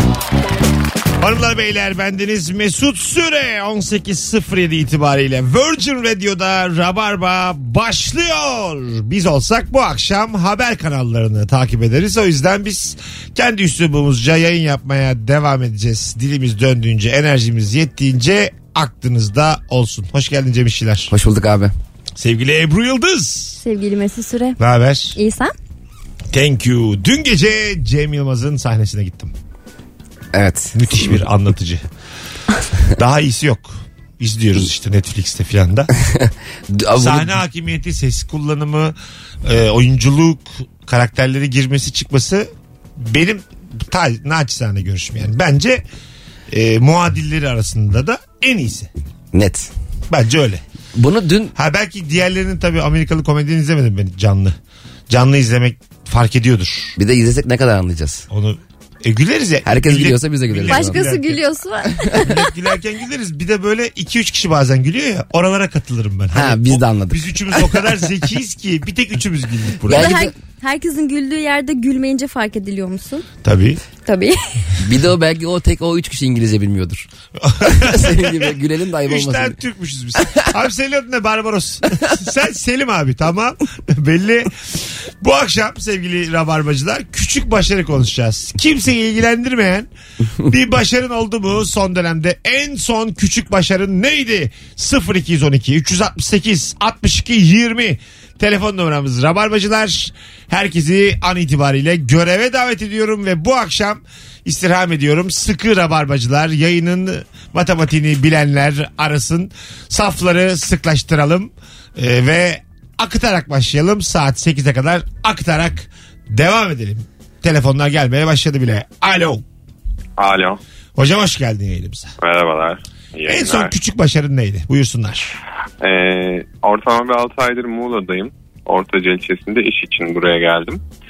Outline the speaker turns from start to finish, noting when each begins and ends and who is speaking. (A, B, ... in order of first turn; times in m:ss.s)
0:01.2-0:21.1 A
0:21.1-0:21.7 B
0:22.2-0:23.6 A
0:23.6-0:24.6 C
0:24.6-0:25.2 A
0:25.1-0:25.5 C
0:26.3-0:29.3 A
0:30.3-0:31.1 B
0:30.7-0:31.8 A
0:33.0-0:35.9 A
0:36.1-0:37.3 B
0:37.0-0:45.8 A
0:46.5-0:48.9 A
0:49.3-0:49.7 B
0:50.1-0:50.6 A
0:50.9-0:51.5 B
0:51.5-0:54.6 A
0:55.1-0:57.0 A
0:57.0-0:58.2 B
0:58.3-1:01.4 A
0:59.6-1:01.1 B
1:00.7-1:02.4 C
1:02.2-1:10.1 A
1:06.3-1:07.8 B
1:09.8-1:10.3 B
1:09.9-1:13.2 C
1:13.4-1:13.8 A
1:14.0-1:14.4 C
1:14.8-1:17.1 B
1:17.4-1:29.9 A
1:17.6-1:19.6 B
1:30.4-1:59.4 A
2:00.2-2:00.6 D
2:01.0-2:02.1 A
2:02.2-2:03.7 D
2:03.3-2:05.3 A
2:05.8-2:10.8 D